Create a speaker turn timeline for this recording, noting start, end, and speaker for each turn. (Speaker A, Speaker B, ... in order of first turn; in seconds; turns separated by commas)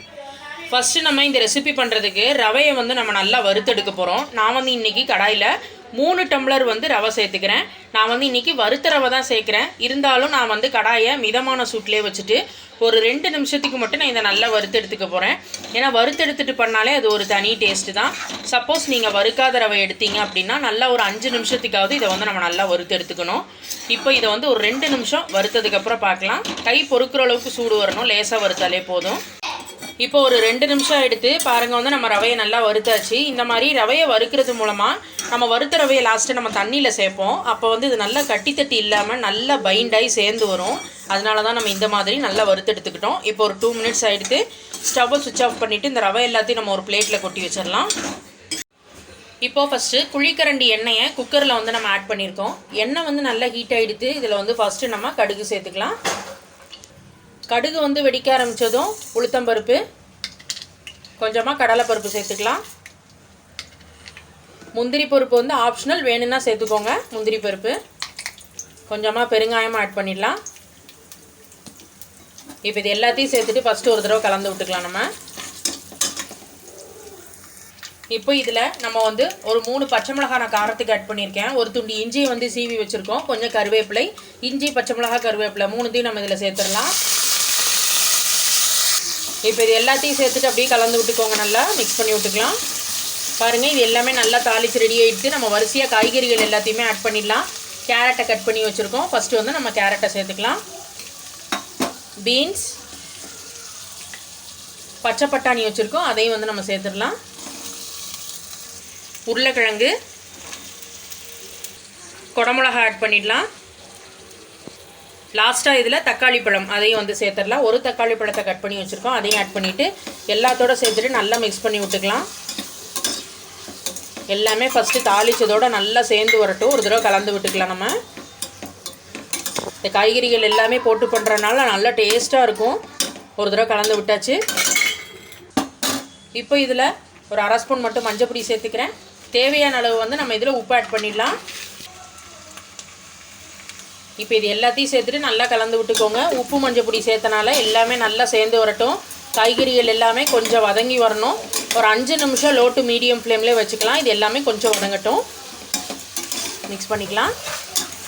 Speaker A: 0.7-29.2, Speaker A: 30.0-47.9, Speaker A: 49.4-56.0, Speaker A: 57.5-59.8, Speaker A: 61.2-62.6, Speaker A: 64.8-67.8, Speaker A: 68.9-70.4, Speaker A: 72.7-75.1, Speaker A: 78.1-86.9, Speaker A: 89.5-92.6, Speaker A: 93.4-100.6, Speaker A: 102.2-102.8, Speaker A: 105.0-107.2, Speaker A: 109.3-109.9, Speaker A: 112.3-113.5, Speaker A: 115.3-122.3, Speaker A: 124.3-128.0, Speaker A: 129.8-132.8, Speaker A: 133.4-134.4, Speaker A: 136.4-141.4, Speaker A: 144.2-155.2, Speaker A: 156.7-157.3